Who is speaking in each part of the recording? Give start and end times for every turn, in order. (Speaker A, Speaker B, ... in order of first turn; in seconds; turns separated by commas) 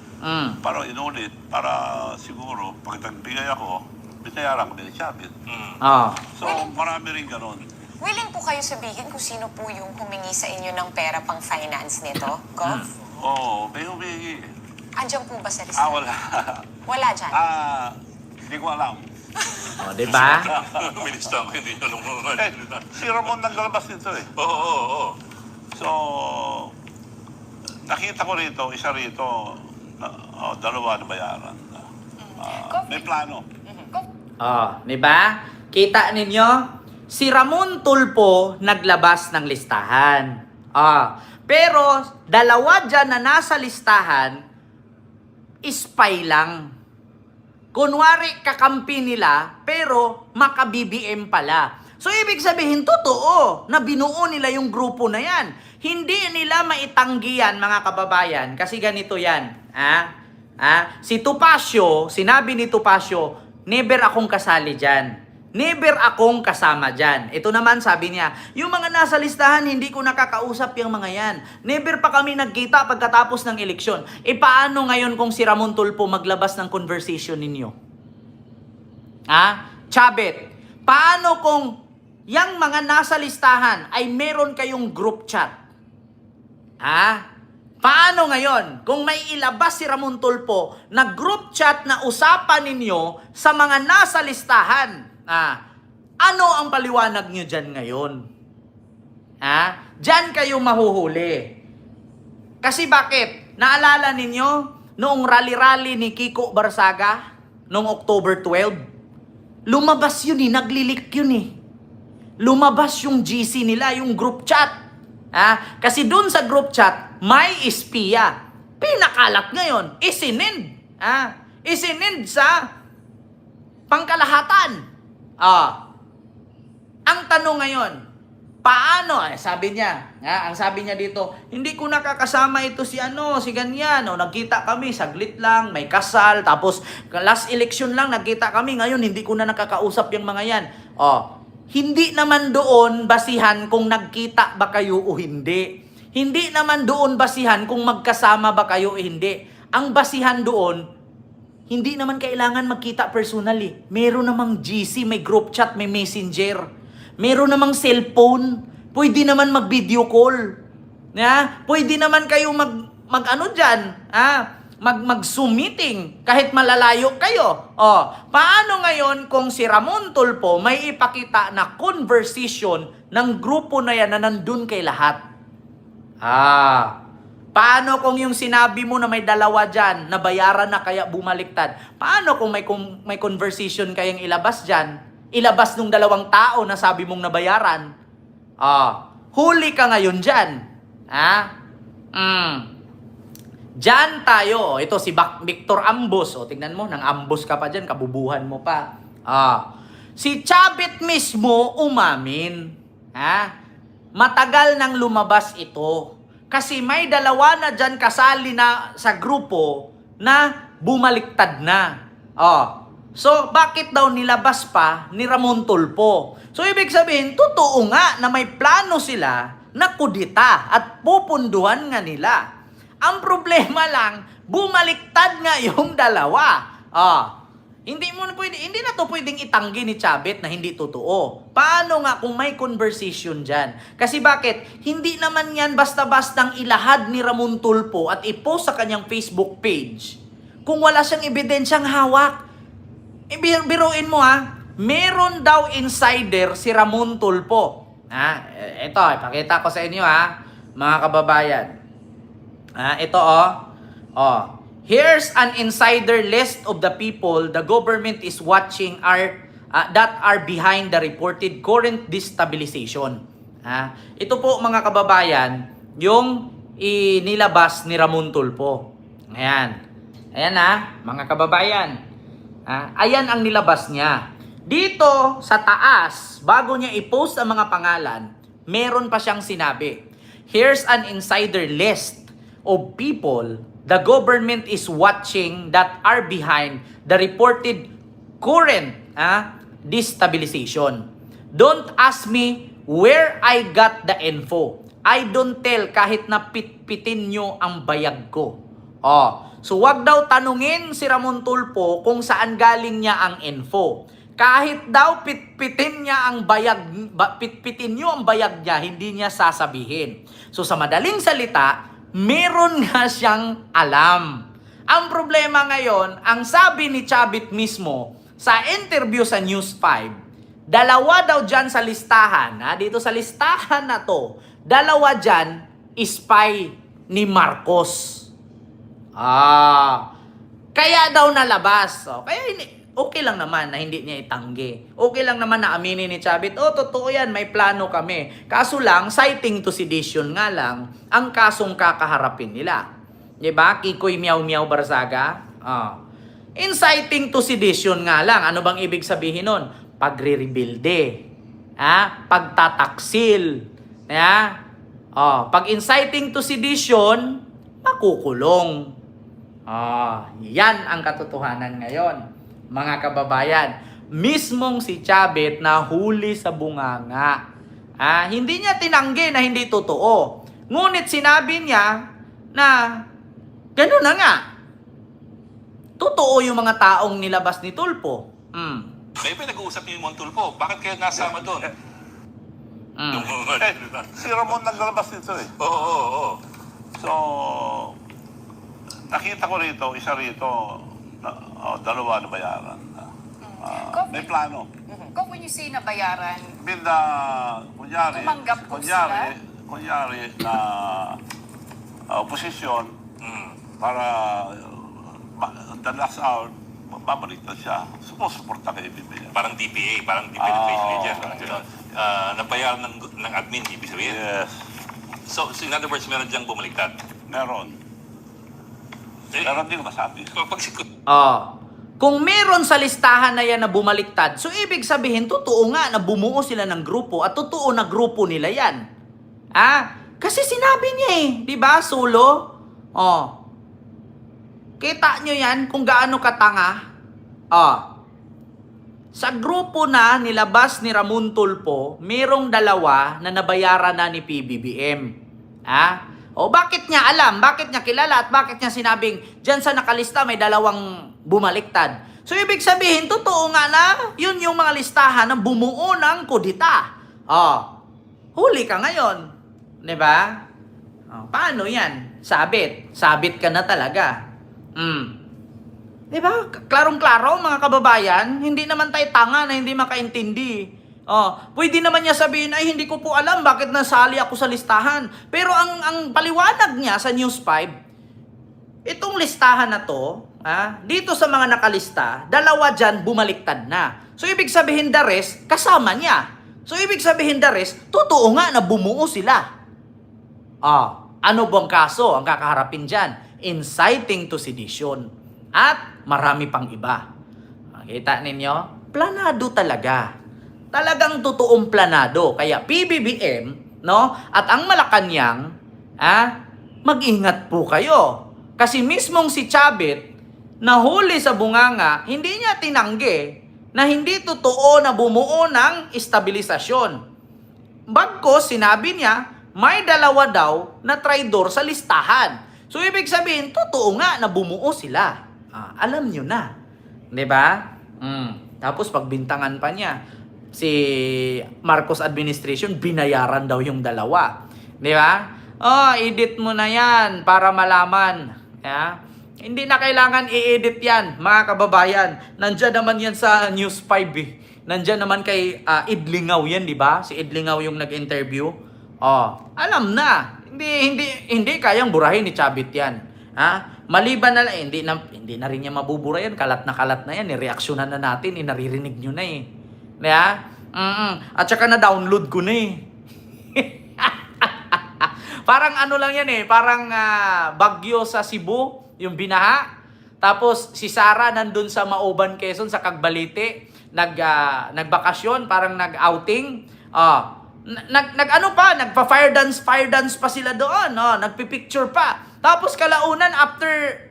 Speaker A: 0.2-0.6, Speaker B: 0.6-5.3, Speaker C: 5.5-5.8, Speaker A: 5.8-6.3, Speaker B: 6.3-7.7, Speaker D: 6.4-6.7, Speaker D: 8.0-12.8, Speaker A: 12.6-12.9, Speaker B: 13.1-14.5, Speaker D: 15.0-16.0, Speaker B: 15.8-16.7, Speaker D: 16.9-17.4, Speaker B: 17.3-18.0, Speaker B: 18.5-19.0, Speaker A: 19.8-20.5, Speaker C: 20.0-22.9, Speaker B: 20.5-20.8, Speaker B: 22.4-24.3, Speaker C: 24.4-25.2, Speaker B: 25.8-26.7, Speaker B: 27.9-33.5, Speaker E: 32.3-33.1, Speaker A: 34.4-44.4, Speaker A: 45.6-46.7, Speaker A: 47.7-60.1, Speaker A: 60.6-77.7, Speaker A: 79.3-81.7, Speaker A: 82.3-85.5, Speaker A: 86.8-87.2, Speaker A: 87.8-95.6, Speaker A: 96.2-98.2, Speaker A: 99.4-101.5, Speaker A: 102.6-108.8, Speaker A: 109.7-111.5, Speaker A: 112.4-114.8, Speaker A: 115.3-122.6, Speaker A: 123.9-124.8, Speaker A: 125.4-125.8, Speaker A: 127.1-128.0, Speaker A: 128.6-150.8, Speaker A: 151.7-156.6, Speaker A: 157.2-160.4, Speaker A: 161.1-175.2, Speaker A: 176.2-176.9, Speaker A: 177.5-187.9, Speaker A: 188.6-190.6, Speaker A: 191.1-191.5, Speaker A: 192.1-192.7, Speaker A: 193.8-203.5, Speaker A: 204.2-222.4, Speaker A: 223.0-227.3, Speaker A: 227.9-242.4, Speaker A: 243.3-251.7, Speaker A: 252.8-253.6, Speaker A: 254.2-269.8, Speaker A: 270.4-272.0, Speaker A: 272.7-280.0, Speaker A: 280.5-287.9, Speaker A: 288.4-320.2, Speaker A: 320.7-328.3, Speaker A: 329.2-330.1, Speaker A: 330.8-342.9, Speaker A: 343.4-346.0, Speaker A: 346.6-351.1, Speaker A: 351.8-353.6, Speaker A: 354.1-354.5, Speaker A: 355.1-358.9, Speaker A: 359.7-362.2, Speaker A: 362.7-367.4, Speaker A: 368.0-371.9, Speaker A: 372.5-373.0, Speaker A: 373.8-374.4, Speaker A: 376.0-378.9, Speaker C: 379.2-381.7, Speaker A: 383.0-383.3, Speaker C: 383.1-384.3, Speaker B: 383.6-385.5, Speaker C: 385.6-386.4, Speaker B: 387.0-388.0, Speaker B: 389.1-393.1, Speaker E: 393.5-394.3, Speaker B: 393.6-394.7, Speaker E: 395.1-396.6, Speaker B: 396.6-401.2, Speaker E: 398.1-399.3, Speaker B: 402.1-402.9, Speaker C: 403.2-403.6, Speaker B: 403.8-409.4, Speaker C: 409.3-414.2, Speaker B: 410.4-411.6, Speaker B: 414.0-414.6, Speaker C: 415.3-417.0, Speaker B: 417.3-417.8, Speaker C: 419.3-419.6, Speaker B: 419.4-420.4, Speaker C: 420.3-420.9, Speaker A: 421.1-428.8, Speaker A: 429.6-432.5, Speaker A: 433.0-433.3, Speaker A: 434.8-436.8, Speaker A: 437.5-437.8, Speaker A: 439.1-445.1, Speaker A: 445.7-457.7, Speaker A: 458.4-459.3, Speaker A: 459.8-460.4, Speaker A: 461.1-464.1, Speaker A: 464.8-465.1, Speaker A: 466.1-477.7, Speaker A: 478.9-489.5, Speaker A: 490.6-497.0, Speaker A: 497.8-500.1, Speaker A: 500.7-505.4, Speaker A: 506.0-506.3, Speaker A: 506.8-510.0, Speaker A: 510.6-517.0, Speaker A: 517.9-526.5, Speaker A: 527.1-530.0, Speaker A: 530.5-548.5, Speaker A: 549.0-559.4, Speaker A: 560.0-562.8, Speaker A: 563.5-569.6, Speaker A: 570.2-584.0